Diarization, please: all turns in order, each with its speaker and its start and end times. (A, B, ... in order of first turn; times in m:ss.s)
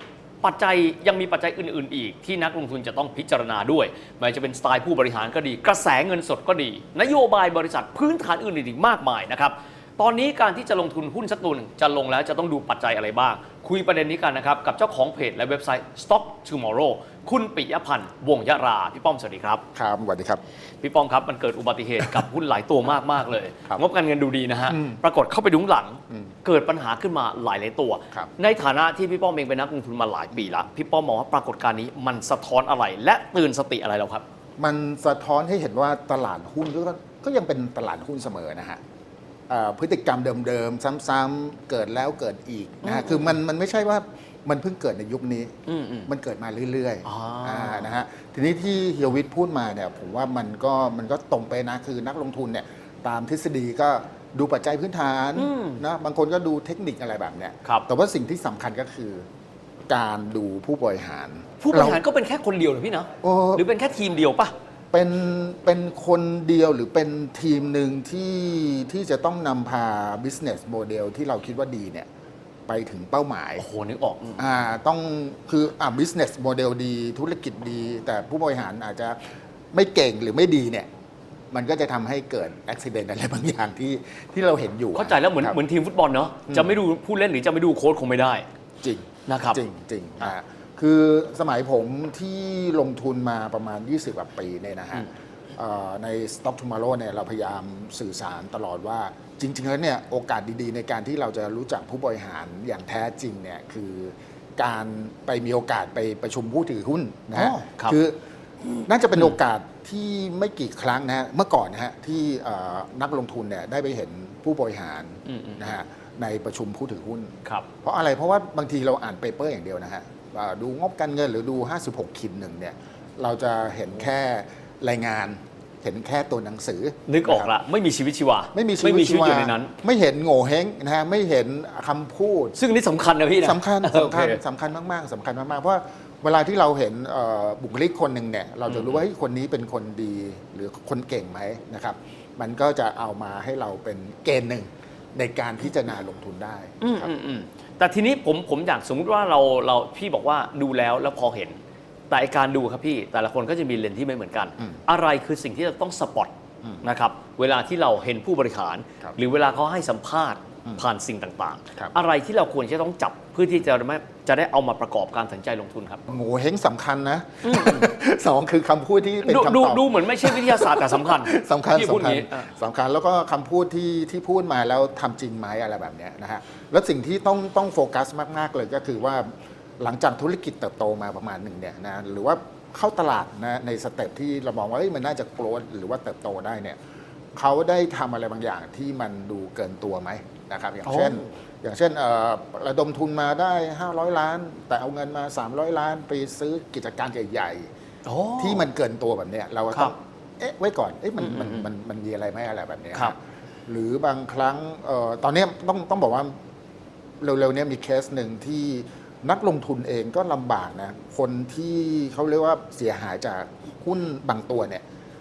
0:00.4-0:19.6 A
0:19.7-0:20.4 B
0:20.8-0:34.2 A
0:24.7-0:25.0 B
0:34.6-0:38.8 B
0:39.5-0:45.5 B
0:42.8-0:43.4 A
0:45.7-0:46.1 A
0:46.1-0:59.2 B
0:47.0-0:47.9 A
0:55.3-0:55.8 A
0:59.9-1:02.0 B
1:01.6-1:04.5 A
1:03.2-1:03.6 B
1:04.9-1:12.1 B
1:12.7-1:13.6 B
1:13.6-1:14.6 A
1:14.4-1:19.2 B
1:19.7-1:20.9 B
1:21.5-1:25.6 B
1:24.9-1:28.4 A
1:26.5-1:26.8 B
1:28.8-1:48.2 B
1:29.2-1:29.6 A
1:47.3-1:48.0 A
1:48.8-2:07.5 B
1:55.2-1:55.7 A
2:07.1-2:09.7 A
2:08.5-2:12.5 B
2:12.5-2:14.4 A
2:13.4-2:27.1 B
2:18.7-2:19.0 A
2:26.8-2:31.6 A
2:32.1-2:46.0 A
2:46.1-3:06.8 B
2:47.4-2:47.9 A
2:49.2-2:52.5 A
3:07.4-3:17.7 B
3:10.8-3:11.2 A
3:18.0-3:18.6 A
3:18.4-3:23.2 B
3:21.2-3:21.7 A
3:23.7-3:26.3 B
3:27.2-3:34.8 B